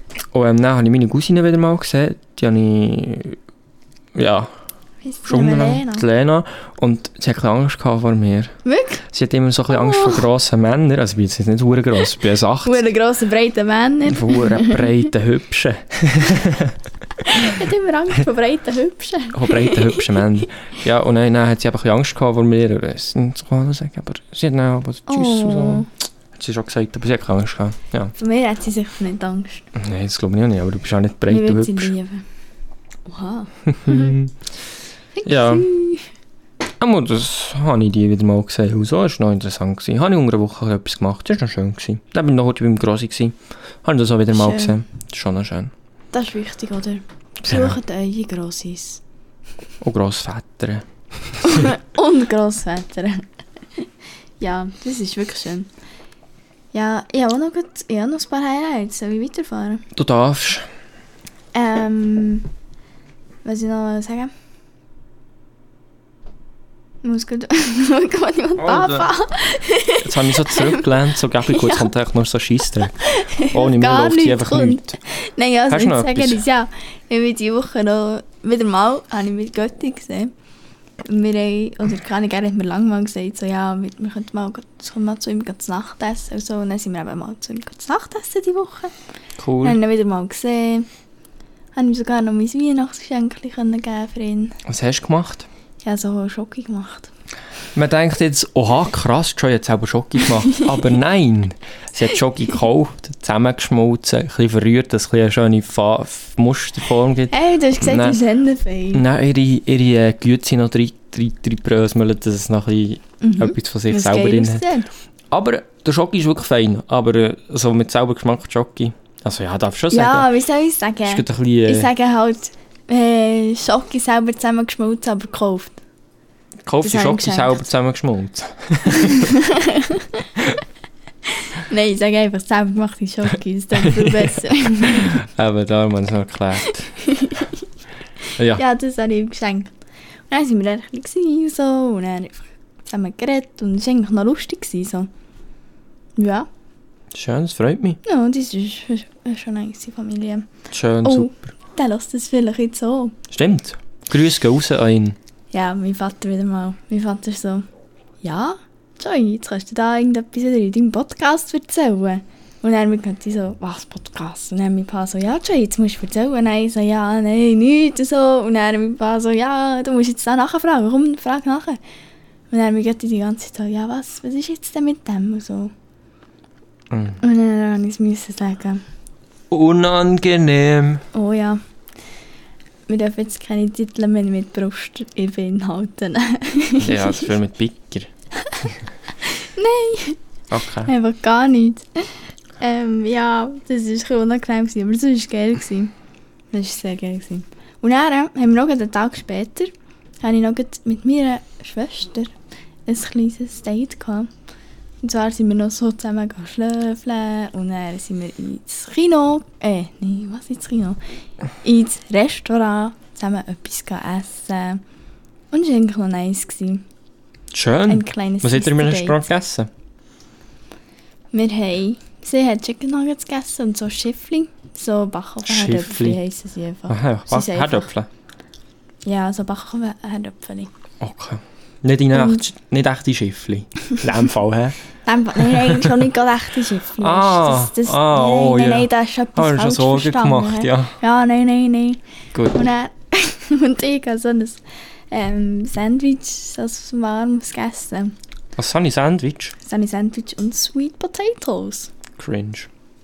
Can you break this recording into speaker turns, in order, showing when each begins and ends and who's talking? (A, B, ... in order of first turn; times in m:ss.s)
0:00.3-0:03.4 A
0:04.2-0:04.5 A
0:05.0-0:06.0 B
0:05.3-0:08.6 A
0:08.6-0:09.0 B
0:09.1-0:12.9 A
0:09.7-0:10.2 B
0:12.6-0:14.9 B
0:14.1-0:16.8 A
0:17.2-0:20.2 B
0:19.3-0:28.1 A
0:25.1-0:25.9 B
0:28.2-0:29.7 B
0:29.8-0:31.9 A
0:31.3-0:32.2 B
0:33.1-0:34.2 B
0:33.7-0:34.3 A
0:35.2-0:36.1 B
0:35.2-0:35.7 A
0:36.8-0:45.7 A
0:44.3-0:44.8 B
0:46.1-0:49.0 B
0:47.4-0:47.8 A
0:49.8-0:50.9 A
0:51.4-0:53.3 B
0:54.4-0:55.7 B
0:56.7-0:59.8 B
0:59.9-1:00.7 A
1:01.5-1:02.5 B
1:03.4-1:04.3 B
1:07.0-1:10.9 B
1:08.6-1:09.1 A
1:10.0-1:15.0 A
1:11.4-1:11.9 B
1:13.0-1:20.3 B
1:15.7-1:16.4 A
1:21.0-1:28.9 B
1:29.4-1:29.8 A
1:29.6-1:30.9 B
1:31.8-1:34.6 B
1:34.7-1:35.5 A
1:35.8-1:37.1 B
1:37.8-1:48.2 A
1:47.3-1:49.0 B
1:48.9-1:54.6 A
1:53.2-1:54.9 B
1:55.3-2:00.3 A
1:59.9-2:05.8 B
2:01.1-2:01.9 A
2:06.6-2:09.4 A
2:06.8-2:07.7 B
2:08.9-2:10.3 B
2:11.3-2:15.2 B
2:13.8-2:14.4 A
2:14.9-2:16.9 A
2:17.0-2:17.5 B
2:18.5-2:19.7 B
2:20.3-2:25.1 B
2:26.2-2:26.5 B
2:27.1-2:28.0 A
2:28.0-2:30.5 B
2:30.7-2:31.5 A
2:31.0-2:33.2 B
2:33.3-2:35.2 A
2:35.5-2:37.7 B
2:38.2-2:51.8 B
2:52.5-2:55.7 B
2:56.9-2:57.2 A
2:57.2-2:58.8 B
2:59.5-3:01.0 A
3:01.1-3:01.6 B
3:02.9-3:07.3 B
3:06.8-3:08.1 A
3:09.2-3:10.2 B
3:10.5-3:10.9 A
3:10.8-3:15.9 B
3:16.5-3:19.7 B
3:20.2-3:22.3 B
3:22.9-3:24.3 B
3:25.0-3:31.0 B
3:31.6-3:34.8 B
3:35.5-3:36.8 B
3:37.5-3:39.7 A
3:37.9-3:39.2 B
3:41.3-3:47.9 B
3:45.5-3:46.2 A
3:46.9-3:48.1 A
3:49.0-3:50.7 B
3:51.0-3:54.8 A
3:52.1-3:52.4 B
3:55.0-4:02.0 B
3:55.4-3:56.0 A
3:57.0-4:00.9 A
4:02.3-4:02.7 A
4:02.5-4:08.2 B
4:08.6-4:09.6 A
4:09.6-4:11.9 B
4:12.2-4:12.7 A